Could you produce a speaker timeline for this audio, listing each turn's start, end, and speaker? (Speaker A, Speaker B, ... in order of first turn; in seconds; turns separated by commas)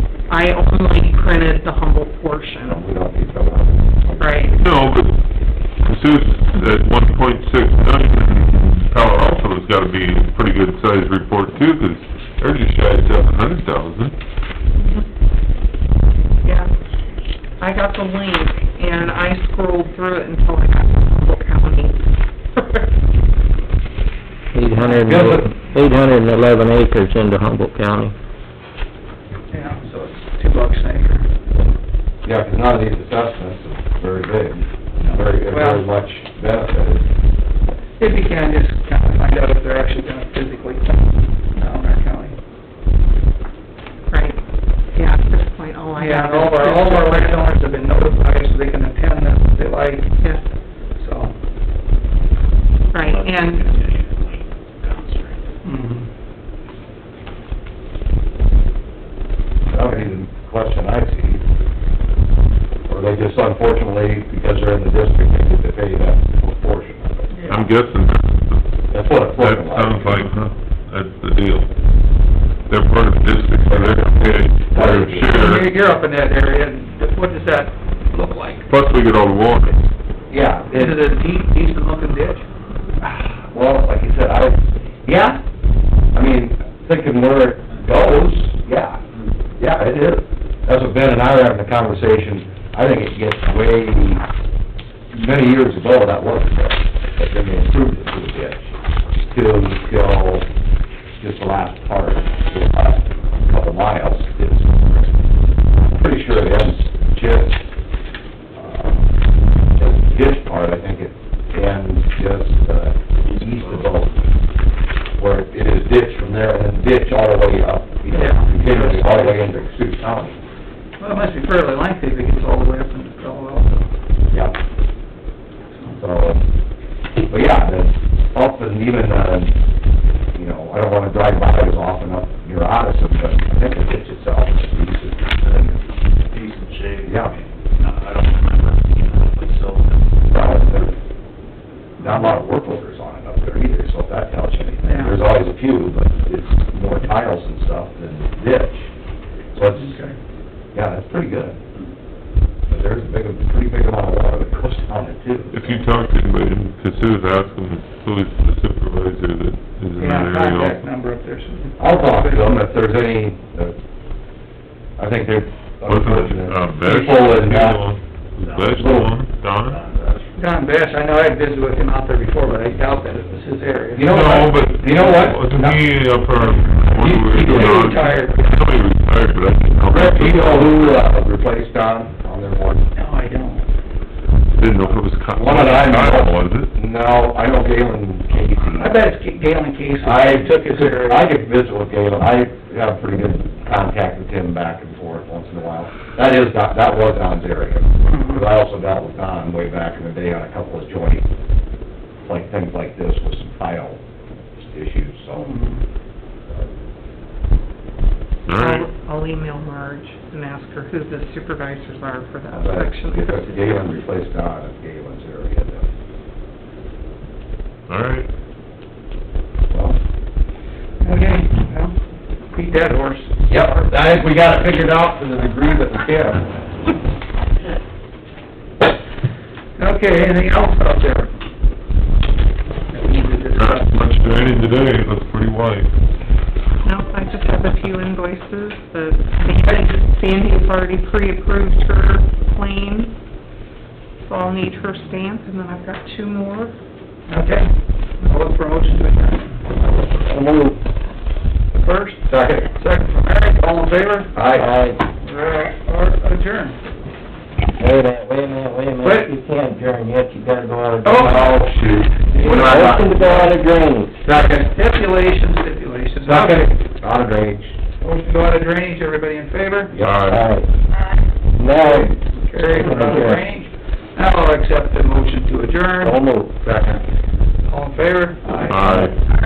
Speaker A: 0.3-2.8, Speaker B: 2.6-5.0, Speaker A: 4.2-4.5, Speaker C: 4.6-5.2, Speaker C: 5.8-14.1, Speaker A: 14.8-15.0, Speaker A: 16.4-16.7, Speaker A: 17.6-22.0, Speaker A: 22.5-22.9, Speaker D: 24.5-28.1, Speaker B: 25.0-25.5, Speaker E: 29.5-31.3, Speaker B: 32.2-37.1, Speaker E: 35.0-35.9, Speaker E: 38.0-42.4, Speaker A: 44.1-44.4, Speaker A: 44.9-47.4, Speaker E: 46.0-50.2, Speaker E: 51.0-51.3, Speaker A: 52.9-53.6, Speaker F: 53.0-55.5, Speaker E: 55.6-56.1, Speaker B: 59.7-61.4, Speaker E: 59.8-60.1, Speaker B: 62.9-67.3, Speaker E: 67.3-67.7, Speaker C: 67.5-68.7, Speaker B: 68.9-70.2, Speaker C: 69.2-71.7, Speaker C: 72.7-75.8, Speaker B: 73.7-75.3, Speaker E: 75.2-78.7, Speaker C: 78.7-79.8, Speaker B: 80.3-81.0, Speaker E: 80.7-82.4, Speaker B: 83.0-85.4, Speaker B: 86.1-89.0, Speaker B: 89.6-94.2, Speaker B: 95.1-98.7, Speaker B: 99.3-100.5, Speaker B: 101.2-105.2, Speaker B: 105.9-107.6, Speaker B: 108.5-109.1, Speaker B: 109.8-114.1, Speaker F: 113.5-113.8, Speaker B: 115.2-120.3, Speaker E: 118.1-119.6, Speaker E: 121.0-123.9, Speaker B: 124.3-124.6, Speaker E: 125.7-126.0, Speaker B: 126.0-126.5, Speaker B: 127.3-129.6, Speaker B: 130.3-135.8, Speaker F: 135.4-140.2, Speaker B: 137.0-137.3, Speaker B: 140.3-141.0, Speaker E: 142.0-142.4, Speaker B: 142.0-148.9, Speaker E: 144.8-145.3, Speaker B: 149.5-150.0, Speaker E: 149.8-150.2, Speaker B: 150.7-151.6, Speaker B: 152.7-155.9, Speaker C: 155.5-160.9, Speaker E: 160.0-162.7, Speaker B: 161.8-163.8, Speaker B: 165.0-167.8, Speaker C: 165.8-169.8, Speaker F: 168.4-169.1, Speaker B: 168.8-169.1, Speaker F: 169.6-170.4, Speaker E: 170.4-174.4, Speaker B: 173.9-175.8, Speaker C: 174.0-181.1, Speaker B: 177.0-177.8, Speaker E: 177.2-178.6, Speaker B: 179.9-182.8, Speaker E: 182.9-183.7, Speaker C: 184.5-186.7, Speaker B: 185.3-188.9, Speaker E: 188.8-191.3, Speaker B: 190.0-201.3, Speaker E: 198.1-198.5, Speaker B: 202.2-205.6, Speaker E: 205.3-205.8, Speaker C: 208.5-208.9, Speaker A: 208.6-213.9, Speaker B: 212.5-215.8, Speaker C: 217.9-218.3, Speaker B: 219.7-220.0, Speaker E: 221.0-222.0, Speaker E: 222.5-223.8, Speaker B: 223.5-226.5, Speaker E: 229.8-231.3, Speaker E: 232.9-234.1, Speaker C: 233.6-235.9, Speaker A: 236.8-243.2, Speaker E: 239.4-240.0, Speaker A: 244.2-246.8, Speaker E: 247.3-249.6, Speaker D: 250.2-250.8, Speaker E: 251.7-254.4, Speaker B: 252.3-252.7, Speaker B: 254.3-254.7, Speaker D: 254.5-255.1, Speaker E: 255.2-256.8, Speaker D: 257.8-261.5, Speaker E: 259.0-259.3, Speaker E: 261.0-261.8, Speaker B: 261.2-263.4, Speaker E: 262.3-263.0, Speaker D: 262.4-264.2, Speaker B: 264.2-264.6, Speaker E: 264.3-266.7, Speaker B: 266.2-267.8, Speaker E: 268.0-269.9, Speaker B: 269.9-270.3, Speaker C: 270.0-270.4, Speaker D: 270.2-270.7, Speaker D: 271.6-273.4, Speaker E: 271.8-276.2, Speaker D: 276.0-276.6, Speaker B: 276.6-277.0, Speaker E: 277.7-278.9, Speaker C: 278.7-279.1, Speaker D: 278.7-279.1